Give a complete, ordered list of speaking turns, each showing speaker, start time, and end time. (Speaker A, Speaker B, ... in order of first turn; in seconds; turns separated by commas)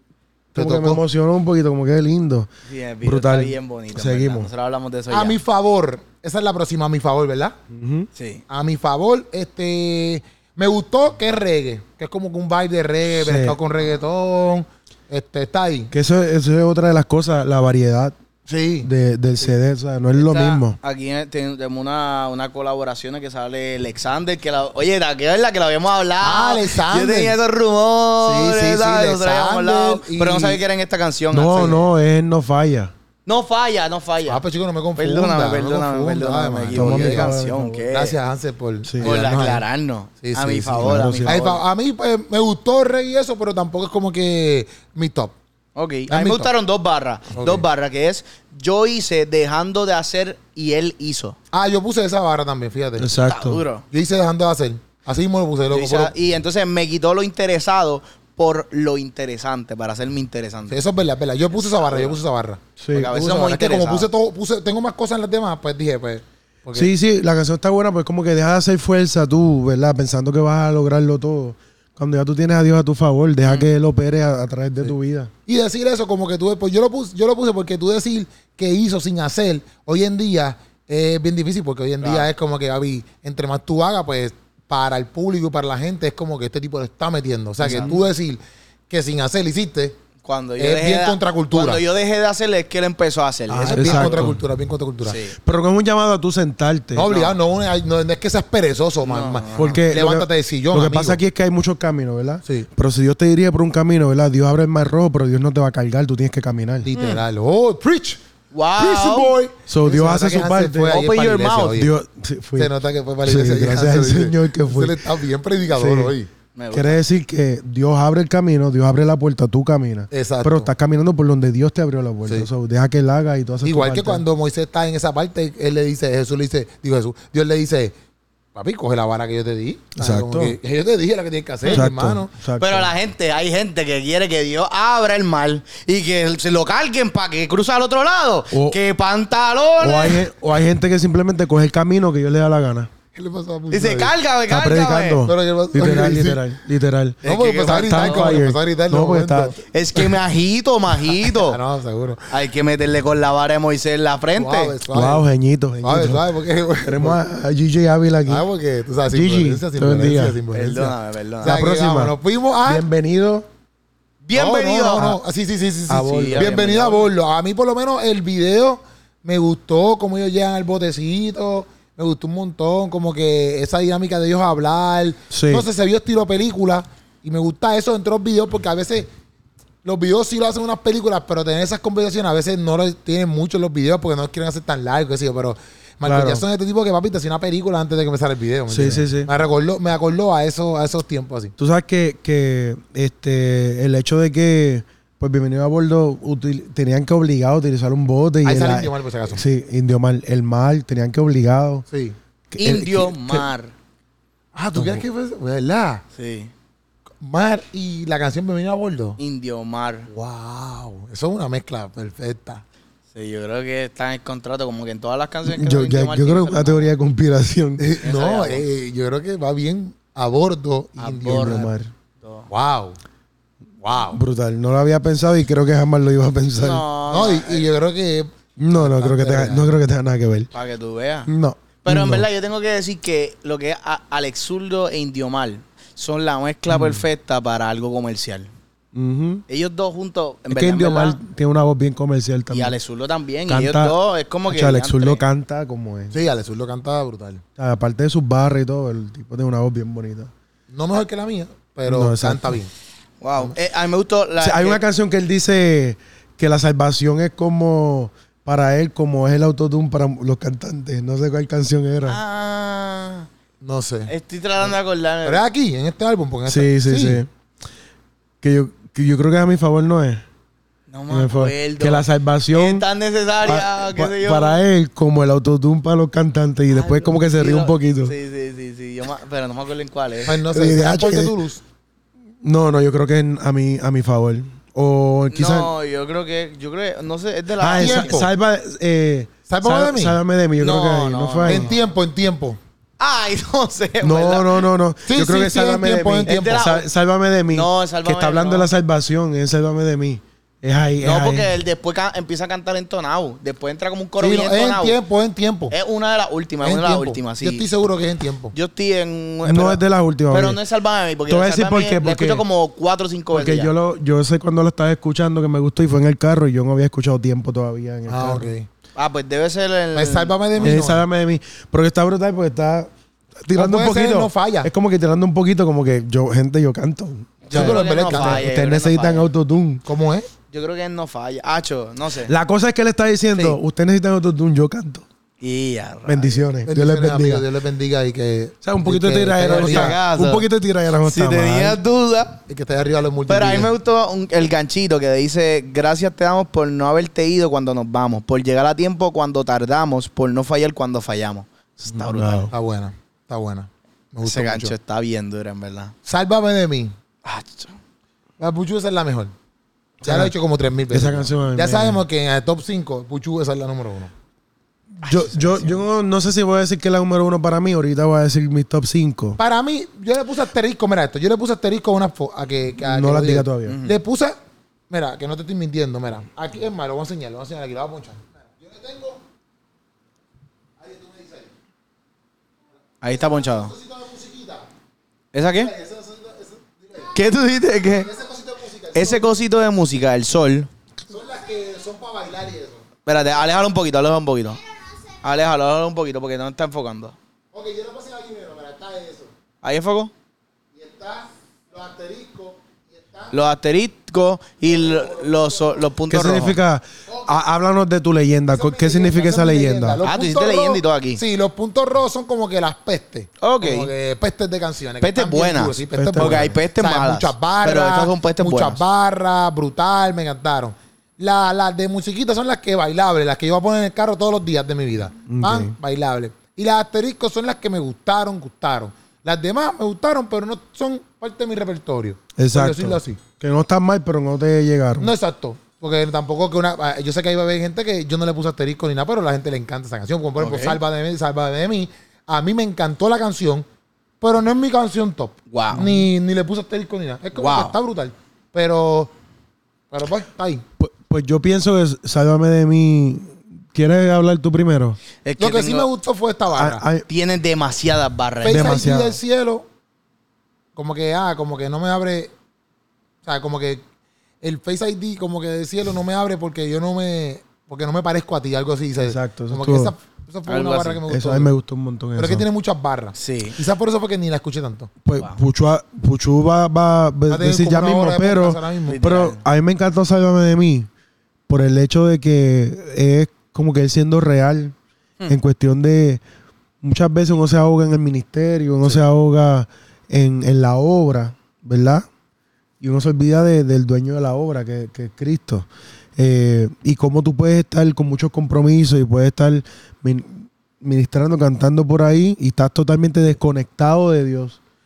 Speaker A: 0.5-2.5, Speaker B: 0.6-1.0, Speaker C: 2.7-5.4, Speaker A: 3.0-4.5, Speaker B: 5.1-7.5, Speaker A: 7.7-8.1, Speaker C: 8.2-8.4, Speaker B: 8.5-15.9, Speaker A: 13.1-13.6, Speaker A: 15.9-18.1, Speaker B: 18.5-18.9, Speaker A: 18.8-20.8, Speaker C: 20.1-31.8, Speaker B: 26.2-27.4, Speaker B: 28.2-30.6, Speaker A: 31.3-32.9, Speaker C: 33.2-34.4, Speaker B: 34.3-37.3, Speaker C: 35.0-38.1, Speaker A: 36.7-37.9, Speaker B: 37.9-39.6, Speaker A: 38.8-39.1, Speaker C: 39.0-41.6, Speaker B: 40.2-45.3, Speaker A: 40.8-41.4, Speaker C: 45.8-51.4, Speaker B: 46.1-46.5, Speaker B: 47.3-47.6, Speaker B: 51.5-53.1, Speaker A: 53.0-53.6, Speaker C: 53.2-53.8, Speaker B: 53.9-56.1, Speaker C: 55.7-60.8, Speaker B: 60.7-66.9, Speaker C: 61.5-62.2, Speaker A: 62.8-63.1, Speaker C: 62.9-64.1, Speaker A: 66.7-75.3, Speaker B: 75.5-90.0, Speaker C: 82.0-82.3, Speaker A: 87.6-88.0, Speaker C: 90.2-94.3, Speaker B: 90.6-91.8, Speaker A: 93.5-94.4, Speaker B: 93.6-95.2, Speaker C: 95.0-95.3, Speaker A: 95.4-97.1, Speaker B: 96.9-101.2, Speaker C: 97.1-97.3, Speaker C: 99.0-99.8, Speaker A: 99.5-106.9, Speaker B: 106.8-108.2, Speaker C: 107.0-107.2, Speaker C: 108.5-109.3, Speaker B: 108.8-111.9, Speaker A: 109.7-111.0, Speaker C: 110.9-111.8, Speaker A: 111.7-112.7, Speaker B: 112.6-116.3, Speaker A: 113.2-115.0, Speaker A: 115.7-116.1, Speaker C: 116.5-117.0, Speaker A: 116.7-124.2, Speaker B: 120.1-120.7, Speaker B: 123.6-127.9, Speaker B: 128.5-132.3, Speaker A: 130.0-130.6, Speaker A: 131.7-132.9, Speaker C: 132.6-140.2, Speaker A: 138.5-138.8, Speaker A: 139.8-142.9, Speaker B: 143.1-144.1, Speaker C: 143.7-145.3, Speaker A: 144.5-149.6, Speaker B: 145.2-146.5, Speaker C: 147.2-148.4, Speaker B: 147.2-149.6, Speaker C: 149.7-151.6, Speaker B: 151.2-152.3, Speaker C: 152.3-154.8, Speaker B: 154.3-155.2, Speaker A: 154.9-156.2, Speaker B: 155.8-157.2, Speaker A: 156.8-158.4, Speaker B: 158.3-162.8, Speaker A: 159.1-160.4, Speaker C: 160.5-161.6, Speaker A: 161.4-163.5, Speaker C: 164.2-165.2, Speaker B: 164.3-179.1, Speaker A: 165.9-166.5, Speaker C: 166.1-167.1, Speaker A: 175.3-175.7, Speaker B: 179.8-191.5, Speaker A: 186.0-186.4, Speaker A: 188.7-189.3, Speaker A: 191.6-201.8, Speaker B: 198.4-199.4, Speaker B: 201.9-202.2, Speaker A: 202.5-203.5, Speaker C: 202.6-203.7, Speaker B: 204.5-206.0, Speaker A: 204.7-205.0, Speaker C: 206.1-206.5, Speaker B: 207.2-209.2, Speaker C: 209.2-210.1, Speaker B: 210.1-212.6, Speaker C: 213.1-216.9, Speaker A: 215.4-217.9, Speaker B: 217.8-221.7, Speaker C: 218.0-218.7, Speaker C: 221.0-221.7, Speaker A: 221.3-221.9, Speaker C: 222.2-222.5, Speaker B: 222.5-223.0, Speaker B: 223.8-224.2, Speaker A: 224.1-226.8, Speaker C: 226.6-227.7, Speaker B: 227.1-229.7, Speaker A: 228.6-230.5, Speaker C: 230.5-231.3, Speaker A: 231.2-232.3, Speaker C: 231.8-238.5, Speaker A: 236.7-237.0, Speaker A: 238.9-239.4, Speaker C: 239.5-241.2, Speaker A: 240.5-242.8, Speaker C: 242.5-245.2, Speaker A: 243.5-243.9, Speaker A: 244.5-246.1, Speaker B: 246.1-247.4, Speaker A: 247.6-250.3, Speaker B: 250.7-252.7, Speaker A: 251.9-252.6, Speaker C: 253.2-254.8, Speaker A: 254.4-262.2, Speaker C: 262.0-263.3, Speaker B: 263.6-264.1, Speaker C: 264.1-265.4, Speaker B: 265.2-267.2, Speaker A: 266.5-267.3, Speaker A: 268.4-270.2, Speaker C: 270.9-274.6, Speaker A: 271.1-272.9, Speaker A: 273.4-278.1, Speaker C: 276.7-280.4, Speaker B: 280.2-281.6, Speaker A: 280.5-281.3, Speaker A: 282.4-285.7, Speaker C: 285.3-288.2, Speaker A: 287.6-291.7, Speaker B: 287.8-288.3, Speaker B: 289.5-290.2, Speaker C: 290.6-291.7, Speaker B: 291.5-292.6, Speaker C: 293.0-294.7, Speaker A: 294.0-301.5, Speaker B: 295.1-296.6, Speaker C: 296.2-296.9, Speaker C: 297.5-298.7, Speaker C: 301.0-304.9, Speaker B: 304.2-305.7, Speaker C: 305.7-307.6, Speaker B: 306.6-308.5, Speaker C: 308.5-313.7, Speaker A: 309.4-310.6, Speaker A: 311.3-312.4, Speaker A: 313.3-318.5, Speaker B: 318.1-318.7, Speaker C: 318.9-320.8, Speaker B: 319.9-321.0, Speaker A: 320.6-322.9, Speaker A: 323.4-329.8, Speaker B: 323.5-324.7, Speaker C: 327.5-329.3, Speaker B: 327.5-328.4, Speaker B: 329.8-330.3, Speaker C: 330.5-332.3, Speaker A: 332.2-335.0, Speaker C: 335.4-336.4, Speaker A: 336.1-337.4, Speaker B: 336.6-340.0, Speaker A: 338.6-341.8, Speaker C: 339.4-340.4, Speaker C: 341.0-342.4, Speaker B: 342.5-343.7, Speaker C: 343.3-352.5, Speaker A: 351.9-352.5, Speaker B: 352.5-354.7, Speaker C: 354.2-355.9, Speaker B: 356.0-356.9, Speaker C: 357.2-357.8, Speaker B: 358.4-359.3, Speaker A: 360.0-360.3, Speaker B: 360.0-364.1, Speaker A: 360.9-362.0, Speaker A: 365.0-369.4, Speaker C: 365.0-365.8, Speaker B: 369.4-374.4, Speaker A: 372.8-373.8, Speaker C: 373.6-374.0, Speaker B: 374.9-379.2, Speaker B: 380.8-381.5, Speaker C: 383.0-383.7, Speaker B: 383.1-384.7, Speaker C: 385.3-385.7, Speaker B: 385.5-387.1, Speaker C: 387.0-388.1, Speaker B: 387.9-389.4, Speaker C: 388.9-390.7, Speaker B: 391.1-392.8, Speaker C: 393.1-394.6, Speaker C: 395.2-397.1, Speaker B: 397.5-399.3, Speaker C: 399.6-400.1, Speaker B: 400.7-403.4, Speaker C: 403.3-406.6, Speaker B: 404.7-405.7, Speaker A: 406.1-410.0, Speaker B: 408.5-433.2, Speaker C: 410.0-411.2, Speaker C: 413.4-413.9, Speaker C: 415.0-418.8, Speaker A: 415.9-416.6, Speaker A: 425.3-425.7, Speaker A: 432.4-435.1, Speaker B: 435.0-443.6, Speaker C: 440.4-440.8, Speaker B: 444.2-449.1, Speaker C: 445.5-445.9, Speaker A: 445.7-446.0, Speaker C: 447.4-447.7, Speaker B: 449.9-450.6, Speaker A: 450.8-455.0, Speaker C: 455.2-455.9, Speaker B: 455.4-456.8, Speaker A: 456.5-457.1, Speaker C: 457.1-458.8, Speaker B: 458.4-459.7, Speaker A: 458.5-459.2, Speaker B: 460.8-462.3, Speaker B: 463.2-463.8, Speaker B: 464.4-471.5, Speaker A: 469.0-469.9, Speaker C: 470.5-471.0, Speaker A: 471.1-472.4, Speaker B: 472.1-474.9, Speaker C: 473.1-473.6, Speaker A: 475.0-480.9, Speaker B: 477.3-479.0, Speaker C: 478.9-479.4, Speaker A: 481.5-484.8, Speaker A: 485.3-486.2, Speaker A: 486.8-492.1, Speaker A: 492.8-504.6